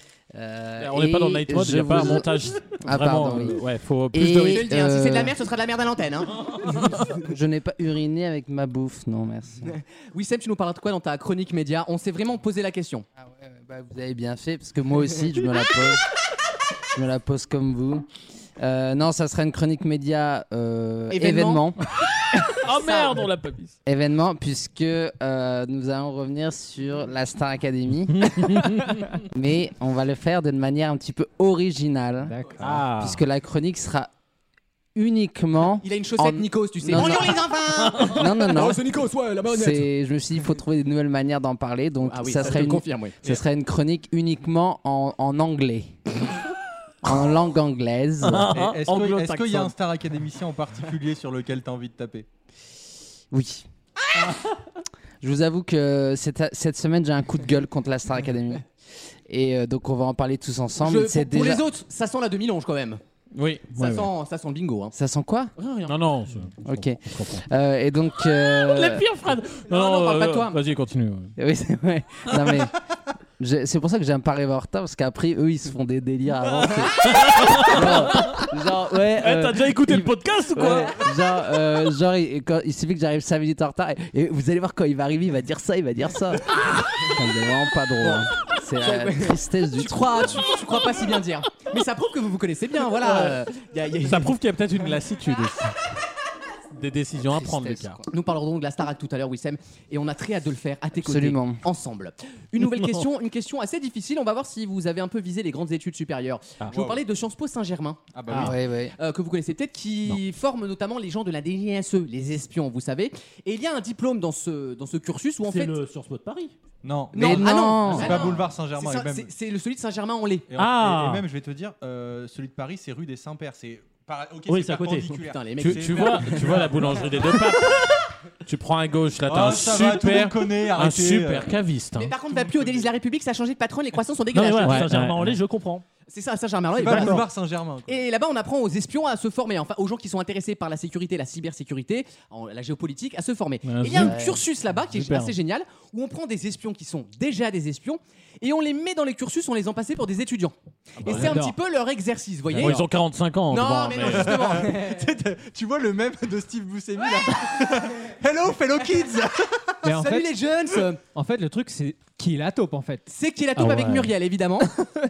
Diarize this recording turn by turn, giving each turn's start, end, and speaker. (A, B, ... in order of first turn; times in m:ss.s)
0:00.3-0:03.6 A
0:00.8-0:04.7 B
0:04.1-0:05.4 A
0:04.3-0:07.1 C
0:07.1-0:09.8 A
0:09.7-0:13.0 C
0:13.3-0:16.0 A
0:16.9-0:18.1 A
0:18.6-0:21.8 A
0:21.1-0:21.6 C
0:22.5-0:23.8 B
0:22.8-0:23.2 C
0:23.8-0:34.1 A
0:28.1-0:29.0 B
0:32.2-0:32.9 D
0:32.6-0:33.2 B
0:35.0-0:38.9 A
0:35.8-0:39.9 C
0:39.5-0:46.0 A
0:42.0-0:43.2 C
0:47.0-0:48.5 A
0:48.2-0:49.7 B
0:48.5-0:52.3 E
0:53.3-0:53.7 A
0:55.2-0:58.6 A
0:59.3-1:01.6 A
1:00.8-1:03.0 C
1:03.3-1:04.1 B
1:03.7-1:05.0 C
1:04.9-1:05.5 A
1:05.6-1:06.0 C
1:05.9-1:07.4 B
1:06.6-1:09.1 A
1:08.6-1:11.3 B
1:09.7-1:10.6 C
1:11.4-1:12.7 A
1:13.4-1:17.1 A
1:17.0-1:18.5 B
1:17.6-1:30.5 A
1:19.2-1:21.0 B
1:28.0-1:28.3 C
1:28.8-1:34.4 C
1:33.0-1:33.4 B
1:34.0-1:35.7 B
1:36.7-1:38.0 B
1:37.3-1:38.1 A
1:38.1-1:55.8 C
1:41.0-1:41.6 A
1:46.7-1:47.0 E
1:48.1-1:48.6 E
1:48.3-1:48.9 A
1:55.5-1:56.5 F
1:56.8-1:59.3 E
1:57.1-1:58.4 A
1:57.1-2:00.5 C
2:00.5-2:07.4 E
2:00.6-2:01.3 F
2:04.5-2:05.1 F
2:04.6-2:06.7 C
2:05.6-2:12.1 B
2:09.3-2:11.6 E
2:12.0-2:14.9 C
2:12.2-2:12.9 E
2:14.3-2:15.8 F
2:14.6-2:15.4 B
2:16.1-2:17.3 C
2:16.8-2:18.0 E
2:17.9-2:32.8 C
2:23.6-2:25.4 B
2:24.0-2:24.4 A
2:31.0-2:31.6 D
2:32.5-2:34.6 B
2:33.5-2:35.1 C
2:34.0-2:39.8 E
2:39.8-2:40.3 D
2:39.9-2:41.0 C
2:41.1-2:43.1 D
2:43.1-2:44.8 C
2:43.6-2:44.1 B